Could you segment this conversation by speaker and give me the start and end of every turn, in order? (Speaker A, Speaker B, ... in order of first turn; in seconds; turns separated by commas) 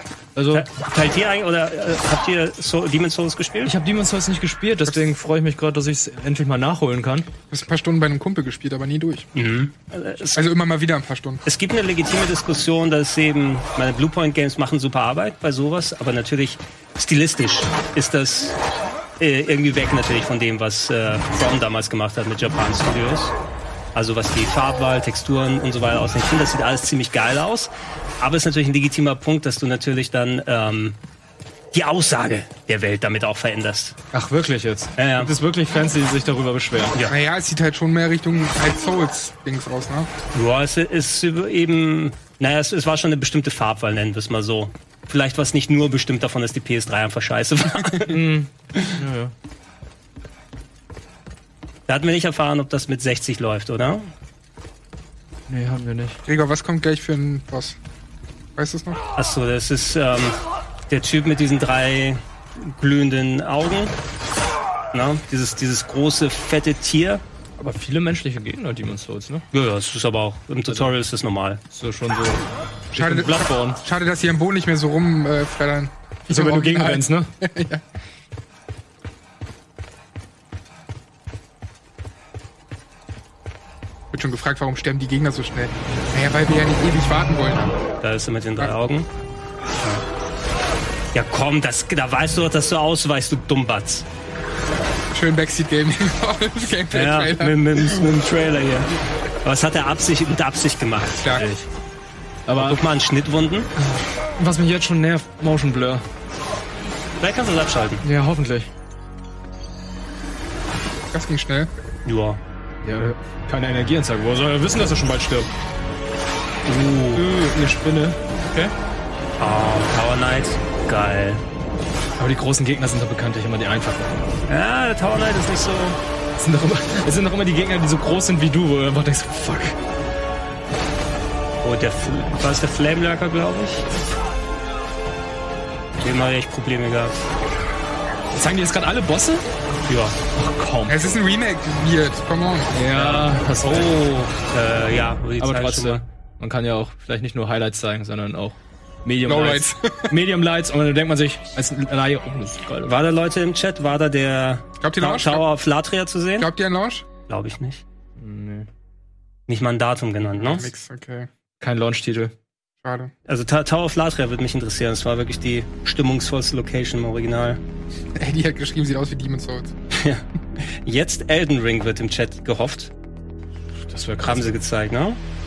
Speaker A: 0.4-0.7, Speaker B: 0.5-3.7, Speaker A: 3.6-7.3, Speaker C: 7.5-9.3, Speaker B: 9.3-10.5, Speaker C: 10.3-11.4, Speaker B: 11.4-18.6, Speaker B: 19.2-23.3, Speaker B: 23.9-31.0, Speaker B: 31.7-34.0, Speaker A: 34.1-37.0, Speaker B: 35.0-35.3, Speaker C: 37.0-40.1, Speaker B: 40.3-48.2, Speaker A: 48.1-49.3, Speaker B: 51.9-54.1, Speaker A: 55.5-56.2, Speaker C: 56.3-57.8, Speaker C: 58.6-59.0, Speaker B: 59.2-60.4, Speaker B: 60.9-64.0, Speaker B: 64.9-67.2, Speaker A: 67.6-69.5, Speaker B: 69.5-71.6, Speaker A: 70.7-70.9, Speaker A: 71.7-73.8, Speaker C: 72.9-77.8, Speaker A: 76.3-77.3, Speaker C: 84.1-87.8, Speaker B: 88.0-89.1, Speaker B: 91.1-94.0, Speaker C: 95.1-97.8, Speaker B: 96.9-98.9, Speaker B: 99.4-101.4, Speaker C: 101.1-101.5, Speaker A: 101.4-101.7, Speaker A: 102.5-102.8, Speaker B: 102.6-103.7, Speaker A: 103.8-106.0, Speaker B: 107.2-108.0, Speaker A: 108.0-108.7, Speaker C: 111.1-111.7, Speaker B: 112.0-112.4, Speaker A: 112.8-115.5, Speaker B: 116.7-117.2, Speaker A: 117.1-118.7, Speaker B: 119.4-121.4, Speaker A: 122.2-124.3, Speaker B: 124.5-126.0, Speaker A: 126.4-129.8, Speaker B: 131.6-133.9, Speaker B: 136.0-137.2, Speaker A: 138.3-139.5, Speaker B: 139.9-140.2, Speaker A: 140.3-141.1, Speaker C: 140.9-142.7, Speaker A: 142.8-143.9, Speaker B: 142.9-146.1, Speaker A: 145.4-152.9, Speaker C: 149.2-150.1, Speaker B: 152.8-156.5, Speaker C: 154.8-155.5, Speaker C: 156.4-157.1, Speaker B: 157.3-157.8, Speaker A: 158.2-158.7, Speaker B: 159.5-160.7, Speaker C: 160.4-161.3, Speaker A: 161.6-162.3, Speaker C: 162.8-163.1, Speaker B: 163.3-167.6, Speaker C: 168.2-169.7, Speaker B: 169.9-172.9, Speaker A: 173.9-174.5, Speaker B: 174.2-175.2